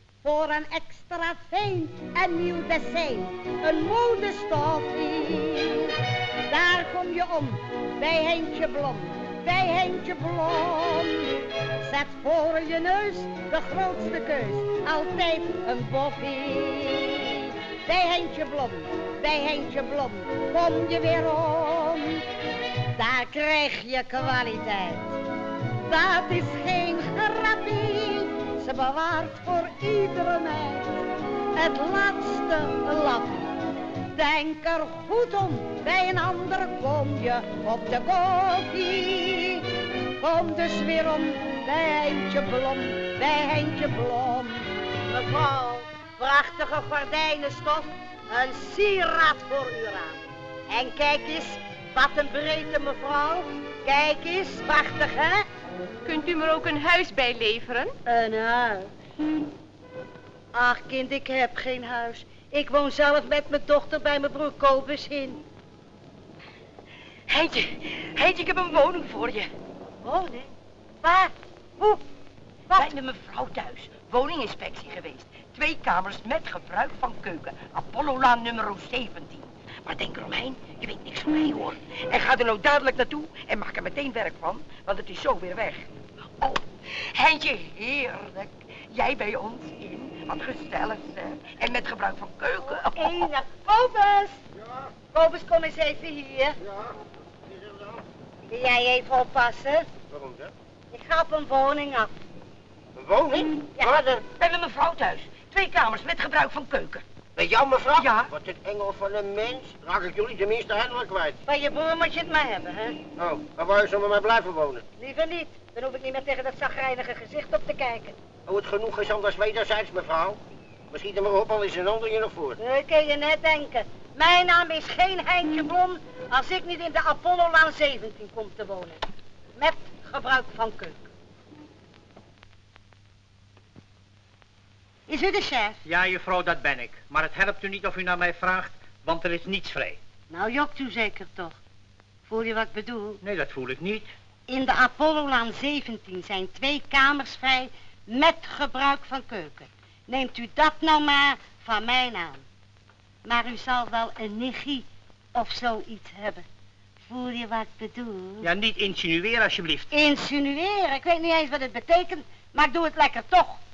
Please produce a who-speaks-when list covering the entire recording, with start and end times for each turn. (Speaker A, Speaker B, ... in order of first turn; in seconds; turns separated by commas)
Speaker A: 0.2-22.2, Speaker A: 22.9-25.2, Speaker A: 25.9-33.5, Speaker A: 34.1-55.5, Speaker B: 56.0-58.0, Speaker A: 58.0-58.9, Speaker A: 60.5-65.4, Speaker C: 68.0-69.4, Speaker C: 72.7-79.3, Speaker C: 80.0-85.5, Speaker C: 87.2-88.0, Speaker C: 88.9-89.8, Speaker C: 90.9-92.8, Speaker A: 92.6-94.4, Speaker D: 94.5-94.9, Speaker A: 95.1-96.6, Speaker D: 96.6-96.9, Speaker D: 97.5-98.0, Speaker A: 98.5-99.9, Speaker D: 100.1-100.5, Speaker A: 100.9-102.1, Speaker D: 103.0-104.2, Speaker C: 104.3-107.0, Speaker D: 107.3-111.4, Speaker A: 111.5-113.0, Speaker D: 113.2-114.8, Speaker A: 115.0-118.2, Speaker D: 118.5-120.4, Speaker D: 120.9-122.6, Speaker A: 122.6-129.0, Speaker A: 129.6-131.1, Speaker A: 135.1-135.8, Speaker E: 135.8-140.0, Speaker A: 140.3-141.6, Speaker A: 142.3-143.2, Speaker E: 143.2-144.1, Speaker A: 144.5-152.4, Speaker A: 153.2-156.4, Speaker A: 157.1-158.5, Speaker E: 158.4-159.9, Speaker A: 159.9-163.6